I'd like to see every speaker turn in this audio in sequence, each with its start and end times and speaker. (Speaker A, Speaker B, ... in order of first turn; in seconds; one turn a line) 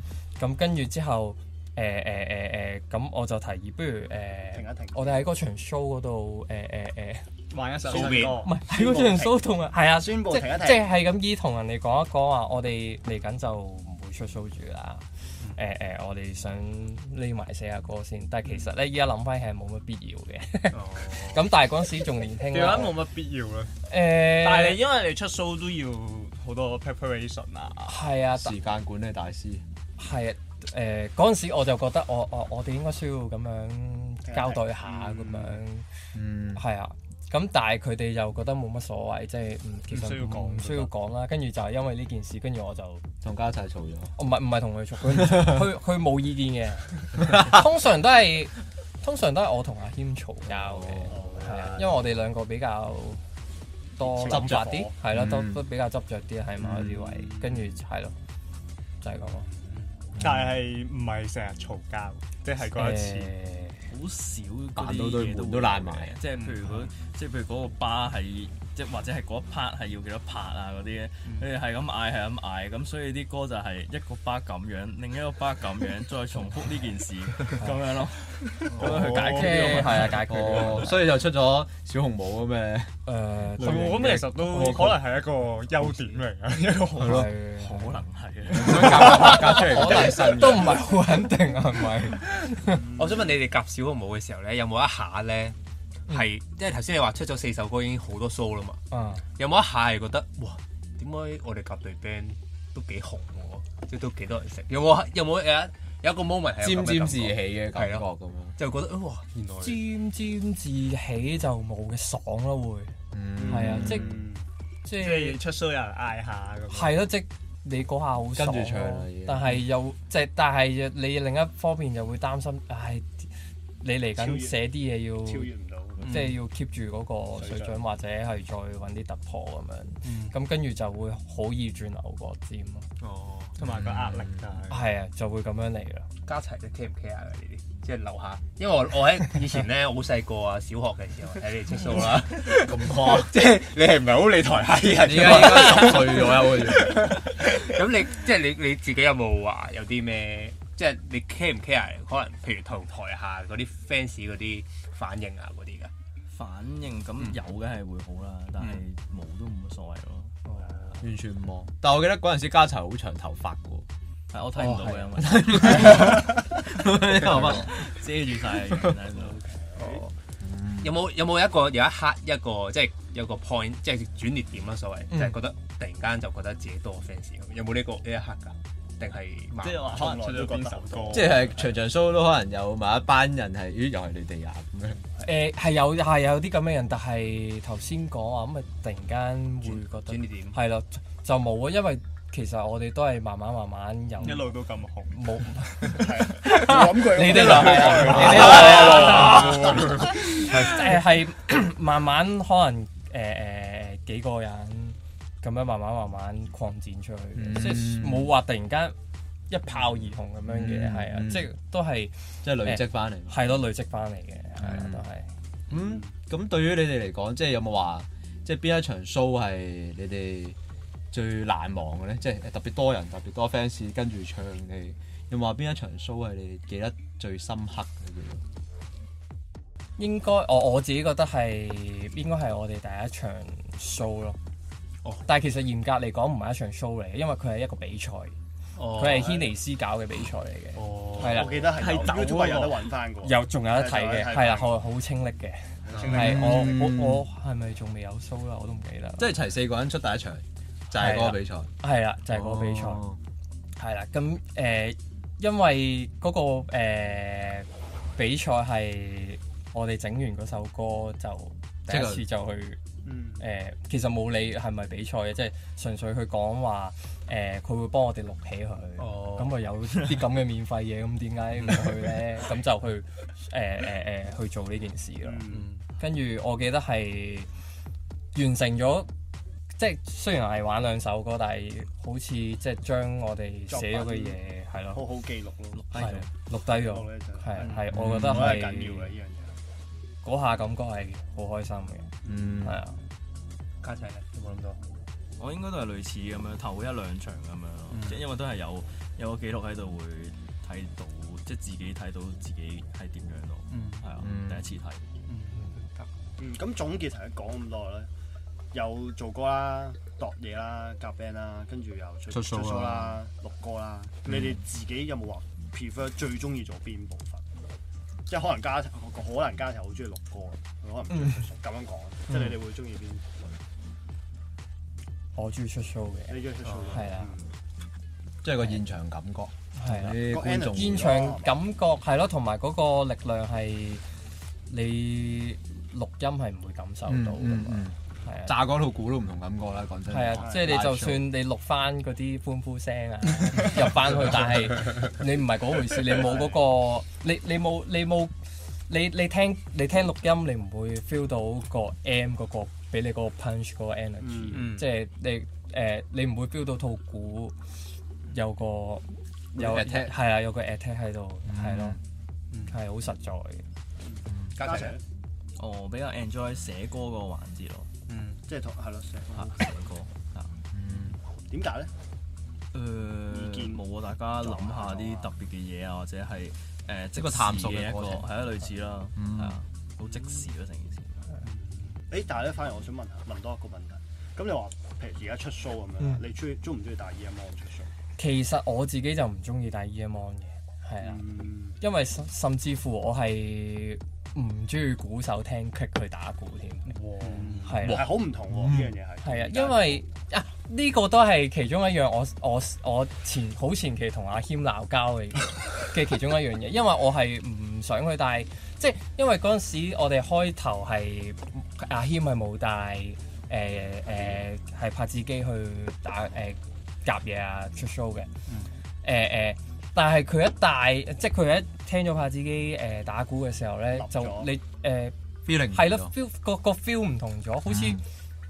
Speaker A: 0.4-7.2
Speaker B: 4.5-5.3
Speaker C: 7.5-8.6
Speaker D: 7.8-8.4
Speaker B: 7.9-10.9
Speaker A: 8.3-23.0
Speaker D: 20.7-21.3
Speaker C: 22.4-23.7
Speaker A: 23.8-24.8
Speaker C: 24.2-28.0
Speaker A: 27.8-28.6
Speaker E: 28.4-29.6
Speaker A: 30.0-35.9
Speaker B: 34.2-35.6
Speaker E: 36.1-36.6
Speaker A: 36.5-43.0
Speaker C: 39.9-40.9
Speaker E: 43.2-44.1
Speaker A: 44.1-53.2
Speaker E: 45.2-45.6
Speaker E: 50.5-51.3
Speaker B: 51.1-52.0
Speaker A: 54.0-58.1
Speaker B: 54.0-54.9
Speaker E: 54.2-55.6
Speaker A: 59.0-59.5
Speaker E: 60.2-60.5
Speaker C: 60.2-63.3
Speaker A: 62.7-63.8
Speaker F: 63.9-80.3
Speaker E: 64.8-66.2
Speaker D: 66.3-66.9
Speaker C: 78.8-80.0
Speaker A: 79.2-81.0
Speaker E: 80.0-82.9
Speaker A: 83.0-85.0
Speaker C: 83.6-87.3
Speaker E: 87.0-87.3
Speaker A: 87.0-88.0
Speaker F: 87.6-89.4
Speaker E: 88.5-90.8
Speaker A: 88.6-92.8
Speaker B: 92.7-93.3
Speaker D: 92.9-95.5
Speaker D: 96.1-98.8
Speaker A: 98.9-99.2
Speaker D: 99.4-108.0
Speaker E: 106.6-108.5
Speaker D: 108.6-109.8
Speaker A: 109.6-114.1
Speaker E: 113.1-114.2
Speaker B: 113.4-114.3
Speaker A: 114.8-115.4
Speaker C: 114.9-117.1
Speaker A: 116.7-125.5
Speaker E: 118.3-119.5
Speaker B: 124.2-124.7
Speaker B: 125.2-126.3
Speaker D: 126.0-126.3
Speaker A: 126.1-132.8
Speaker B: 127.3-127.8
Speaker D: 130.0-130.3
Speaker D: 133.0-133.6
Speaker C: 133.6-134.9
Speaker E: 133.6-134.6
Speaker A: 134.7-136.1
Speaker D: 136.2-155.9
Speaker E: 142.5-143.3
Speaker E: 145.0-147.2
Speaker F: 156.3-160.4
Speaker D: 158.6-158.8
Speaker B: 160.6-161.0
Speaker E: 161.0-163.8
Speaker F: 164.3-166.2
Speaker A: 164.6-165.0
Speaker E: 165.2-167.9
Speaker F: 167.2-169.4
Speaker B: 169.1-170.1
Speaker D: 169.8-170.1
Speaker E: 170.4-171.0
Speaker D: 170.8-180.2
Speaker C: 179.6-181.6
Speaker B: 179.9-181.4
Speaker E: 181.1-185.0
Speaker A: 185.2-194.5
Speaker D: 189.6-190.6
Speaker C: 194.2-195.9
Speaker A: 195.1-208.9
Speaker B: 195.9-199.7
Speaker C: 197.4-200.1
Speaker E: 198.0-198.5
Speaker D: 198.4-199.5
Speaker E: 207.3-208.3
Speaker A: 209.5-215.3
Speaker E: 210.4-211.5
Speaker E: 212.4-213.4
Speaker E: 214.6-215.0
Speaker E: 215.7-220.6
Speaker E: 221.1-228.4
Speaker A: 230.0-234.4
Speaker A: 235.2-238.4
Speaker D: 238.8-239.4
Speaker A: 238.9-241.7
Speaker D: 240.8-241.5
Speaker C: 241.1-242.9
Speaker B: 241.2-244.8
Speaker A: 243.2-249.3
Speaker B: 245.8-246.9
Speaker D: 245.9-246.3
Speaker E: 246.1-247.2
Speaker E: 249.2-251.7
Speaker A: 250.9-253.0
Speaker E: 252.3-253.2
Speaker A: 253.8-262.8
Speaker E: 261.9-262.2
Speaker B: 263.0-263.4
Speaker A: 263.4-275.4
Speaker D: 269.0-269.6
Speaker B: 275.2-275.7
Speaker D: 275.5-275.8
Speaker A: 276.0-277.5
Speaker A: 278.3-279.1
Speaker A: 279.8-285.1
Speaker B: 283.7-284.4
Speaker B: 284.9-286.1
Speaker F: 285.7-286.3
Speaker A: 285.9-289.1
Speaker B: 286.6-289.6
Speaker E: 287.9-288.7
Speaker A: 290.2-292.1
Speaker E: 292.2-292.8
Speaker A: 292.6-293.0
Speaker D: 293.8-294.8
Speaker F: 295.4-305.0
Speaker D: 297.9-298.2
Speaker D: 303.7-304.1
Speaker E: 304.2-304.7
Speaker D: 305.3-306.1
Speaker B: 306.4-308.1
Speaker B: 308.7-317.4
Speaker E: 312.3-313.2
Speaker B: 318.3-323.3
Speaker A: 325.3-327.3
Speaker B: 326.3-327.5
Speaker D: 326.6-327.0
Speaker E: 328.4-331.2
Speaker A: 329.7-334.0
Speaker B: 330.2-331.5
Speaker A: 334.7-338.5
Speaker E: 337.1-341.3
Speaker A: 340.1-348.3
Speaker B: 340.4-340.8
Speaker B: 346.2-346.5
Speaker A: 348.9-357.6
Speaker B: 354.2-354.7
Speaker D: 354.5-354.9
Speaker A: 358.3-362.0
Speaker E: 359.5-360.2
Speaker E: 361.5-362.0
Speaker A: 362.7-363.6
Speaker B: 364.0-365.0
Speaker D: 364.5-365.0
Speaker F: 365.6-367.9
Speaker D: 368.1-368.4
Speaker B: 368.4-369.7
Speaker F: 369.3-370.5
Speaker E: 370.7-371.2
Speaker B: 371.5-371.9
Speaker F: 372.7-381.3
Speaker B: 373.3-373.8
Speaker B: 374.4-375.3
Speaker E: 377.1-378.3
Speaker E: 379.1-379.6
Speaker B: 382.0-387.9
Speaker A: 388.2-391.2
Speaker B: 391.0-391.8
Speaker A: 391.8-397.0
Speaker C: 396.9-397.6
Speaker D: 397.2-397.6
Speaker B: 397.3-400.0
Speaker A: 397.6-398.1
Speaker E: 397.8-398.9
Speaker A: 399.2-418.3
Speaker A: 419.0-428.0
Speaker B: 423.9-424.5
Speaker E: 425.4-426.1
Speaker E: 427.7-428.0